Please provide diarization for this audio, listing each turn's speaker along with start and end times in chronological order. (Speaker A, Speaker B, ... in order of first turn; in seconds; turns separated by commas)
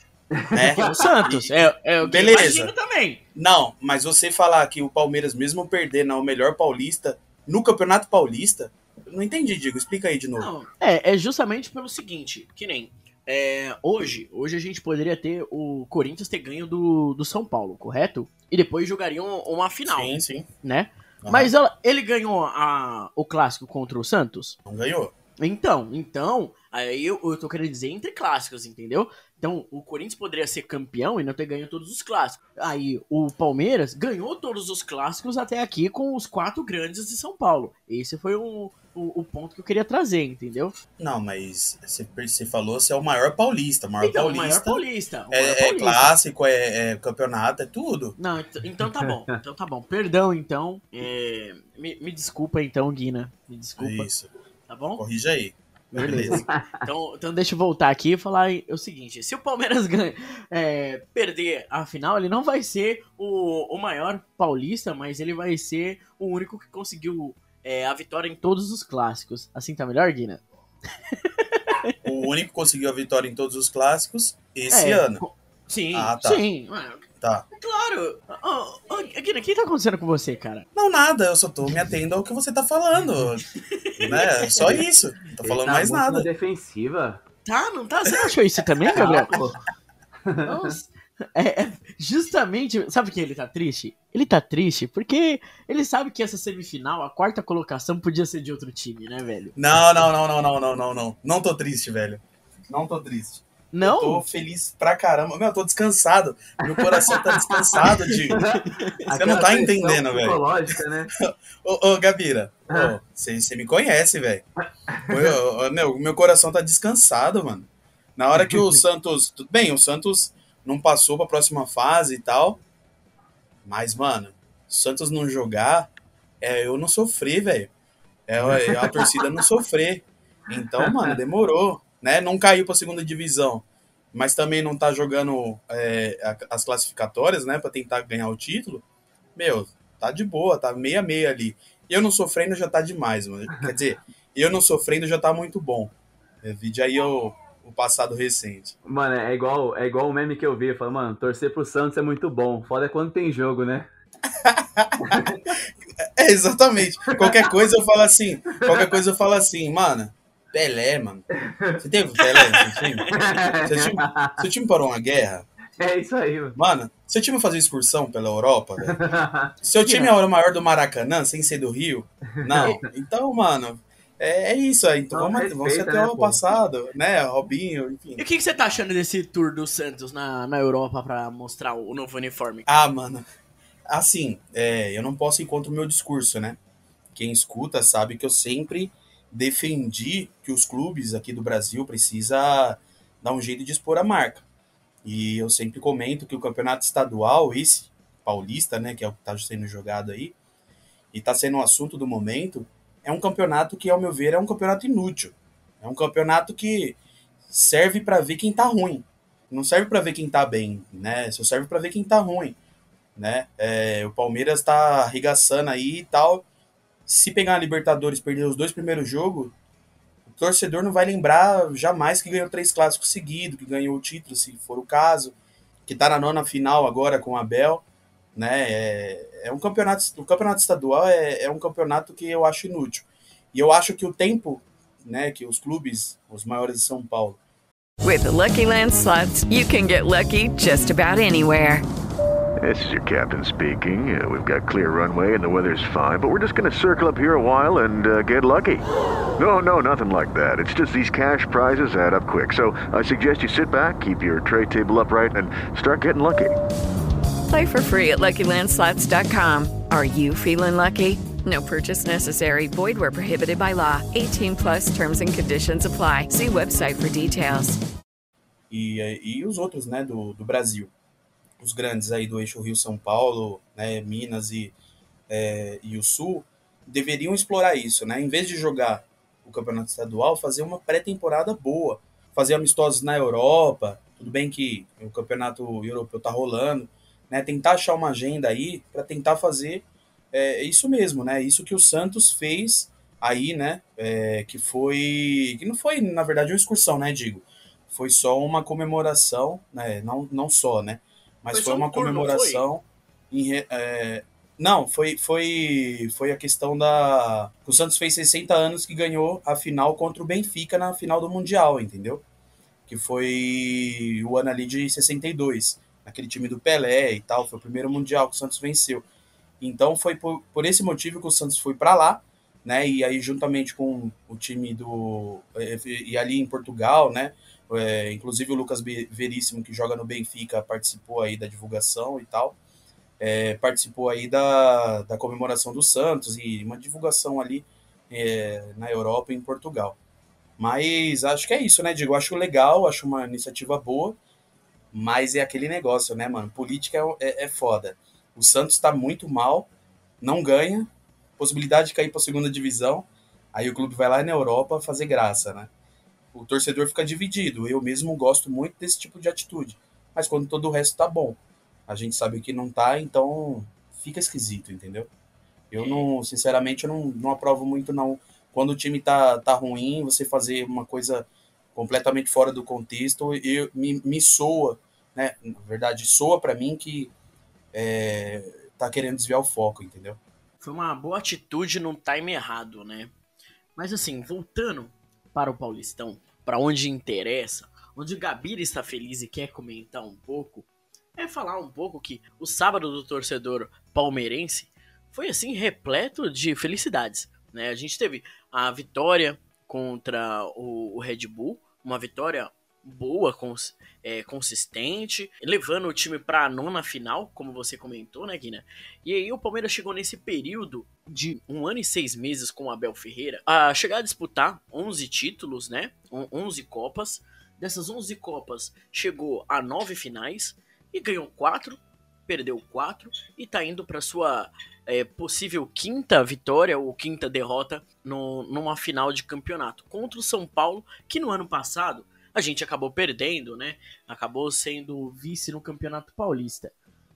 Speaker A: 0.4-0.8, Speaker B: 0.5-2.7, Speaker C: 0.8-3.2, Speaker B: 3.4-10.5, Speaker C: 10.4-24.6, Speaker B: 19.9-20.5, Speaker B: 21.2-21.5, Speaker B: 24.7-25.1, Speaker C: 25.4-40.8, Speaker B: 41.0-48.2, Speaker C: 44.0-46.1, Speaker C: 48.2-54.1, Speaker B: 53.8-54.3, Speaker C: 54.7-55.0, Speaker B: 55.0-56.4, Speaker C: 56.0-70.4, Speaker A: 56.4-56.7, Speaker C: 71.1-72.0, Speaker B: 72.0-75.2, Speaker C: 74.7-80.7, Speaker B: 75.9-76.4, Speaker B: 80.8-83.5, Speaker C: 83.7-84.7, Speaker B: 84.0-86.3, Speaker A: 84.0-84.8, Speaker A: 85.4-87.2, Speaker C: 87.5-89.3, Speaker A: 89.0-89.6, Speaker A: 90.3-90.7, Speaker C: 90.5-99.5, Speaker B: 99.6-108.5, Speaker C: 103.7-104.2, Speaker A: 106.7-108.6, Speaker C: 108.4-109.1, Speaker A: 109.1-111.1, Speaker B: 109.1-110.5, Speaker B: 111.2-114.5, Speaker A: 114.9-115.3, Speaker B: 115.1-122.6, Speaker A: 118.4-118.8, Speaker B: 123.7-125.9, Speaker B: 126.4-127.7, Speaker B: 128.3-138.8, Speaker A: 128.6-129.1, Speaker A: 130.8-131.1, Speaker B: 139.4-148.8, Speaker A: 148.9-153.9, Speaker B: 154.4-155.2, Speaker A: 155.0-155.5, Speaker B: 156.0-161.3, Speaker A: 157.1-157.5, Speaker A: 158.5-158.9, Speaker A: 161.4-162.6, Speaker B: 161.8-165.5, Speaker A: 163.1-164.5, Speaker A: 165.8-166.6, Speaker B: 166.6-169.0, Speaker A: 168.8-169.5, Speaker B: 169.6-178.2, Speaker A: 172.4-172.8, Speaker A: 175.1-176.4, Speaker C: 178.2-182.7, Speaker B: 182.7-183.2, Speaker B: 183.9-186.6, Speaker B: 187.1-194.4, Speaker B: 195.0-200.4, Speaker B: 201.1-207.0, Speaker B: 207.5-212.6, Speaker B: 213.2-216.4, Speaker B: 217.1-219.5, Speaker B: 220.3-225.3, Speaker B: 225.9-237.4, Speaker D: 238.0-241.8, Speaker E: 242.6-248.8, Speaker E: 249.4-256.6, Speaker D: 257.5-267.8, Speaker B: 268.7-270.9, Speaker B: 271.6-274.8, Speaker B: 275.3-312.2, Speaker C: 301.5-302.7, Speaker B: 312.9-319.1, Speaker B: 319.6-332.6, Speaker B: 333.2-340.0, Speaker B: 340.6-344.2, Speaker B: 344.9-349.7, Speaker B: 350.2-355.7, Speaker B: 356.3-365.1, Speaker B: 365.7-377.1, Speaker C: 365.8-366.1, Speaker B: 377.7-380.2, Speaker C: 380.6-383.1, Speaker C: 383.8-436.7